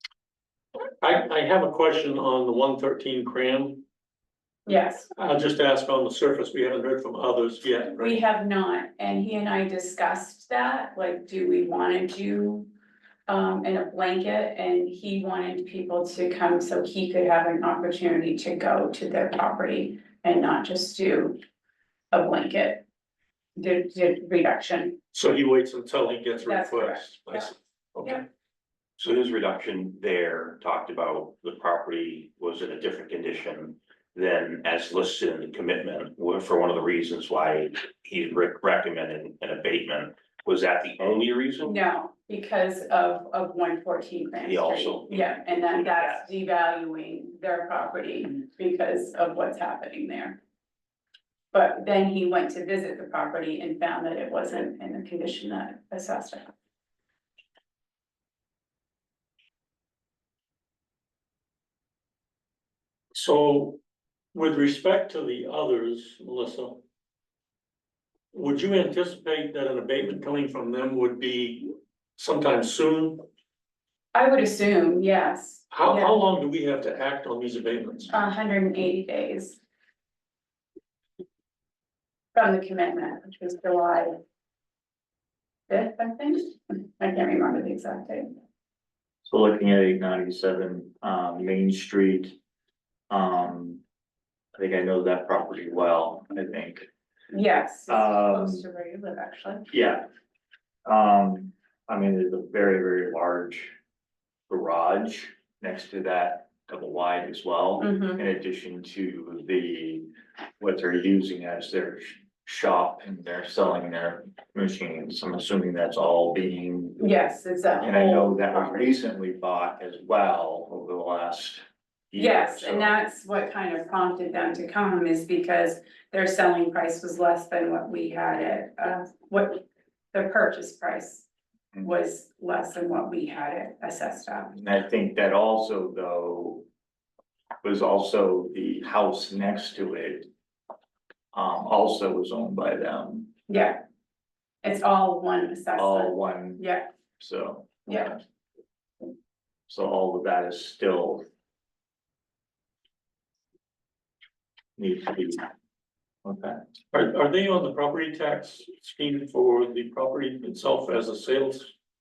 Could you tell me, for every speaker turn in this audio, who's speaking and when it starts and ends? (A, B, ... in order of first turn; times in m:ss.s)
0:01.0-0:03.8 A
0:04.6-0:05.1 B
0:05.2-0:08.2 A
0:07.9-0:12.7 B
0:13.3-0:21.4 B
0:22.1-0:22.8 B
0:23.6-0:25.0 B
0:25.1-0:28.2 A
0:26.4-0:27.5 B
0:29.0-0:41.8 C
0:41.6-0:50.4 B
0:44.4-0:46.3 C
0:51.5-0:56.5 B
1:03.1-1:03.8 A
1:04.3-1:06.8 A
1:08.3-1:13.2 A
1:14.1-1:16.2 B
1:15.7-1:18.1 A
1:18.1-1:19.6 B
1:22.3-1:24.1 B
1:25.7-1:28.3 B
1:29.2-1:32.4 D
1:33.1-1:33.8 D
1:34.6-1:36.9 D
1:37.3-1:39.6 B
1:37.9-1:38.6 D
1:39.7-1:40.0 D
1:40.8-1:43.7 D
1:44.5-1:50.1 D
1:47.8-1:48.2 B
1:50.6-1:57.1 D
1:57.0-1:58.9 B
1:57.8-2:03.0 D
2:02.2-2:11.3 B
2:11.8-2:14.5 B
2:14.5-2:16.6 D
2:17.6-2:20.3 D
2:21.3-2:23.3 D
2:23.5-2:23.8 B
2:24.6-2:26.8 B
2:25.8-2:26.6 D
2:27.2-2:28.0 D
2:27.8-2:28.2 B
2:29.7-2:31.2 D
2:34.8-2:35.4 D
2:36.2-2:36.6 D
2:36.9-2:41.7 A